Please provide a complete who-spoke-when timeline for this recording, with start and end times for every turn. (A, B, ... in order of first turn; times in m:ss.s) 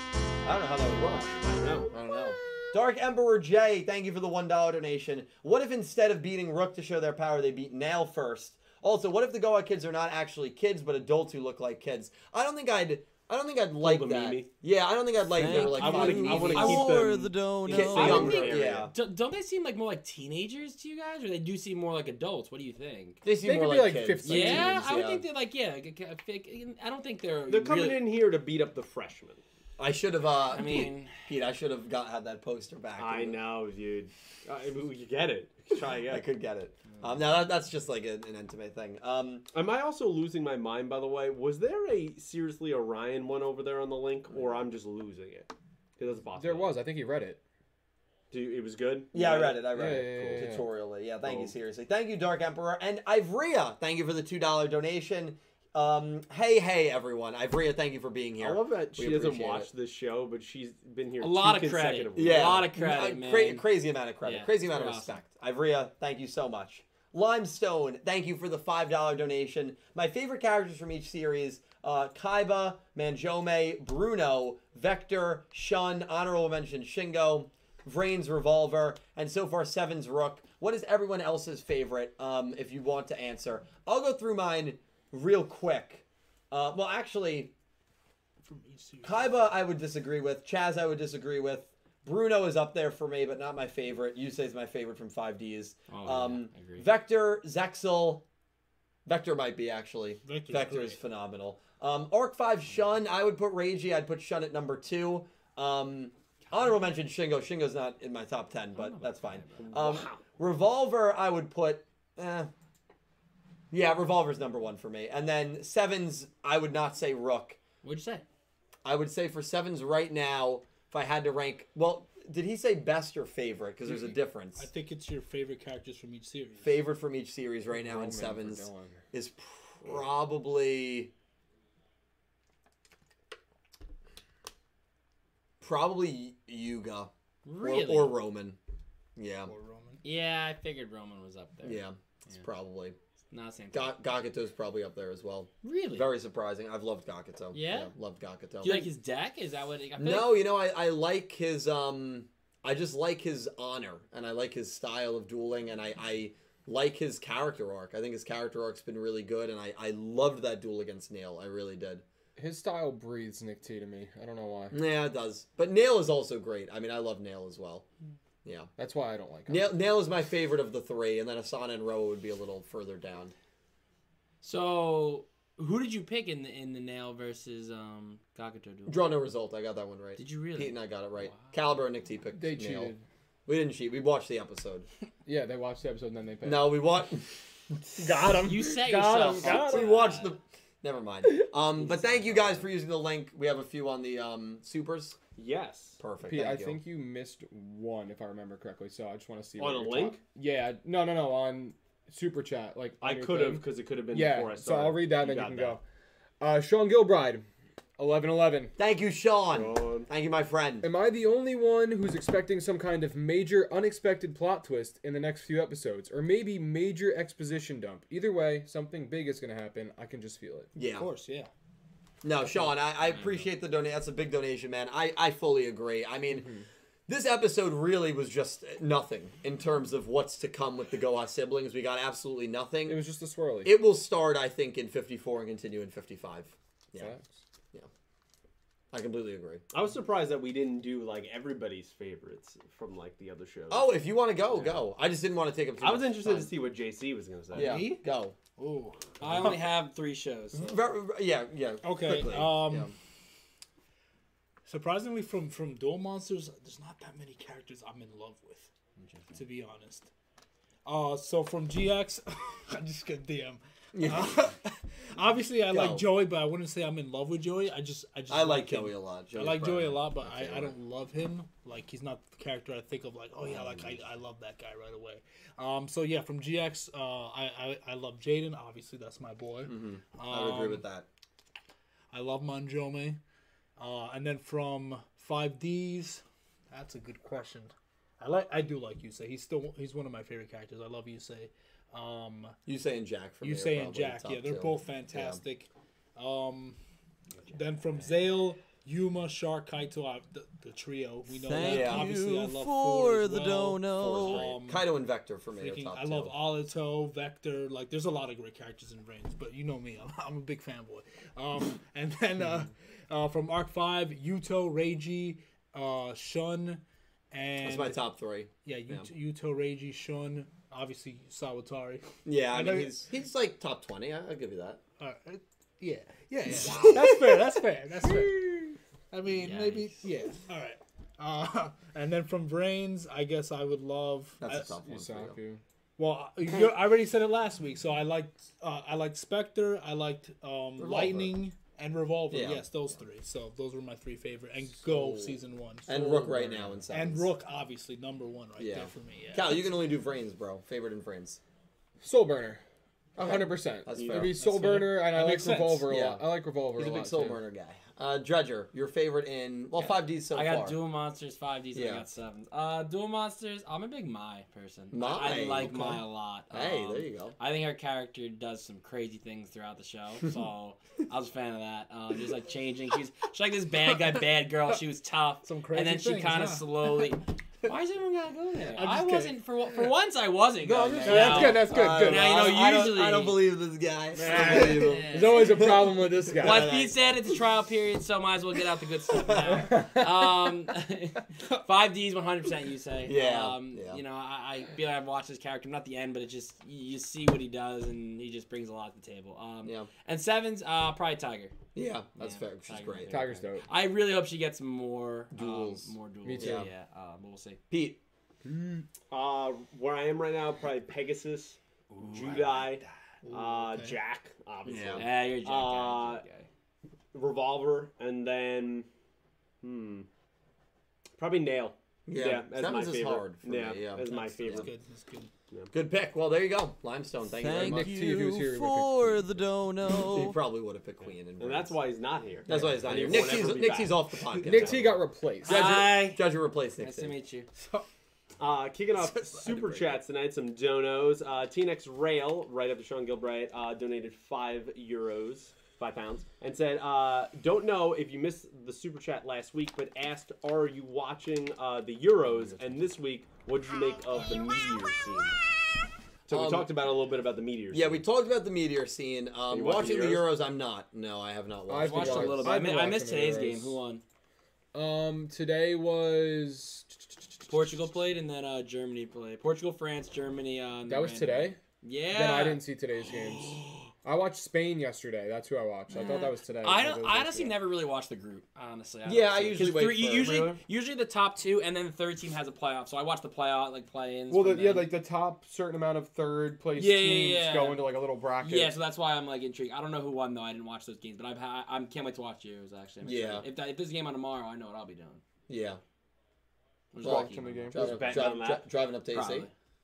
0:00.4-0:01.3 A
0:01.0-0:01.9 B
0:01.9-0:17.0 A
0:13.8-0:14.5 B
0:15.3-0:18.4 C
0:15.4-0:18.9 B
0:15.5-0:17.0 D
0:17.7-0:18.9 A
0:17.7-0:23.2 D
0:23.2-0:25.2 A
0:23.4-0:24.8 E
0:24.2-0:28.0 D
0:27.5-0:29.4 B
0:29.8-0:33.4 A
0:30.5-0:31.3 D
0:33.0-0:36.2 B
0:35.7-0:39.5 A
0:39.5-0:46.8 B
0:46.3-0:47.4 E
0:48.3-0:50.4 B
0:49.1-0:59.7 A
0:49.7-0:50.6 E
0:51.2-0:51.6 B
0:58.4-1:02.7 B
1:01.2-1:03.6 D
1:02.1-1:27.5 A
1:04.2-1:05.2 D
1:28.4-1:29.5 F
1:29.0-1:38.2 A
1:35.9-1:36.9 D
1:39.1-1:52.5 A
1:40.2-1:41.0 F
1:48.7-1:50.1 D
1:49.6-1:50.2 B
1:53.7-1:57.6 A
1:57.8-1:58.2 D
1:58.8-2:04.7 A
2:03.9-2:06.8 F
2:06.6-2:11.1 A
2:07.7-2:09.0 E
2:15.6-2:18.6 A
2:17.4-2:18.2 D
2:19.2-2:19.5 A
2:19.5-2:20.0 F
2:20.0-2:22.4 D
2:21.6-2:23.0 A
2:23.3-2:24.0 D
2:23.7-2:28.9 A
2:25.6-2:26.1 D
2:27.5-2:27.9 D
2:28.6-2:30.4 D
2:30.0-2:42.0 A
2:42.4-2:44.8 E
2:44.7-2:47.8 A
2:48.4-2:48.7 A
2:48.8-2:49.7 E
2:49.5-2:53.3 A
2:54.4-2:59.1 D
2:58.9-3:02.9 A
3:00.2-3:01.5 D
3:02.4-3:03.0 E
3:03.5-3:04.9 A
3:05.2-3:06.8 E
3:06.4-3:07.4 A
3:08.0-3:10.0 E
3:08.4-3:10.4 D
3:09.4-3:15.2 A
3:15.4-3:16.0 B
3:16.0-3:16.8 A
3:16.2-3:25.8 E
3:19.6-3:20.2 B
3:23.0-3:25.8 B
3:26.4-3:27.5 E
3:28.0-3:28.7 E
3:28.8-3:30.9 A
3:29.5-3:30.1 B
3:30.8-3:40.7 E
3:40.8-3:41.1 A
3:41.0-3:41.5 F
3:42.2-3:46.5 A
3:43.1-3:43.5 D
3:46.4-3:46.6 E
3:47.1-3:53.0 A
3:52.9-3:53.7 E
3:53.6-3:57.1 A
3:57.0-3:57.2 E
3:58.9-3:59.6 A
3:59.7-4:03.9 B
4:03.7-4:06.5 A
4:05.8-4:07.8 B
4:07.5-4:08.0 F
4:07.5-4:08.4 A
4:08.6-4:09.5 F
4:09.2-4:10.8 D
4:09.2-4:09.6 A
4:10.5-4:12.9 A
4:11.8-4:12.9 F
4:14.6-4:18.7 F
4:19.0-4:19.4 D
4:19.3-4:20.1 F
4:20.9-4:40.8 F
4:23.9-4:24.4 A
4:25.7-4:26.1 A
4:28.3-4:30.8 A
4:33.4-4:34.0 A
4:39.6-4:41.1 A
4:42.1-4:43.2 F
4:43.8-4:52.6 F
4:52.7-4:55.4 A
4:53.4-4:56.8 F
4:57.5-4:58.1 D
4:57.5-5:04.9 F
5:01.4-5:04.5 C
5:01.5-5:02.1 A
5:04.0-5:06.3 A
5:05.6-5:18.0 F
5:17.6-5:19.1 A
5:18.6-5:23.1 F
5:22.3-5:24.8 A
5:25.0-5:34.8 F
5:26.5-5:27.5 A
5:29.3-5:30.1 D
5:34.4-5:35.4 A
5:34.8-5:35.6 E
5:36.0-5:49.7 F
5:40.8-5:41.3 A
5:42.3-5:42.7 A
5:44.8-5:47.3 A
5:48.6-5:51.4 A
5:52.0-5:52.6 E
5:53.2-5:54.4 A
5:53.2-5:57.4 E
5:54.0-5:54.3 B
5:54.4-5:55.9 F
5:55.9-6:00.8 A
5:59.8-6:23.4 D
6:01.7-6:02.0 A
6:04.9-6:07.4 A
6:15.4-6:16.7 F
6:18.7-6:19.4 F
6:20.7-6:22.3 E
6:20.7-6:27.1 A
6:21.1-6:22.2 F
6:24.2-6:26.7 E
6:24.2-6:25.0 F
6:24.3-6:25.6 D
6:26.4-6:41.6 D
6:29.2-6:29.6 A
6:29.6-6:30.1 E
6:33.0-6:34.0 A
6:39.6-6:39.9 A
6:41.8-6:43.2 A
6:42.2-6:47.6 D
6:43.1-6:43.7 E
6:45.3-6:46.7 A
6:46.2-6:46.7 E
6:47.7-6:48.0 A
6:48.4-6:48.8 E
6:49.1-6:56.2 B
6:52.0-6:52.7 D
6:53.2-6:54.0 F
6:54.6-6:55.1 A
6:55.0-6:56.5 D
6:57.1-6:58.9 B
6:59.6-7:00.1 B
7:01.2-7:04.7 B
7:02.1-7:04.7 A
7:04.1-7:05.3 F
7:05.7-7:08.0 A
7:07.4-7:10.4 C
7:07.5-7:09.4 E
7:10.0-7:11.8 A
7:11.4-7:14.9 B
7:12.5-7:17.1 A
7:14.4-7:15.6 E
7:15.4-7:16.2 D
7:16.8-7:17.5 D
7:17.6-7:17.8 F
7:18.4-7:35.4 B
7:36.3-7:38.0 B
7:36.3-7:36.7 A
7:37.7-7:42.6 A
7:39.5-7:40.3 B
7:41.7-7:43.8 E
7:41.8-7:44.0 D
7:44.7-7:47.5 E
7:47.5-7:52.6 D
7:50.9-7:51.6 E
7:52.1-7:57.6 E
7:55.9-8:04.9 D
7:59.1-8:00.6 A
8:04.3-8:08.7 E
8:06.8-8:15.2 D
8:13.0-8:13.5 A
8:15.5-8:15.8 A
8:16.9-8:17.8 D
8:17.0-8:18.2 E
8:17.0-8:19.5 A
8:17.7-8:18.6 B
8:19.1-8:19.5 D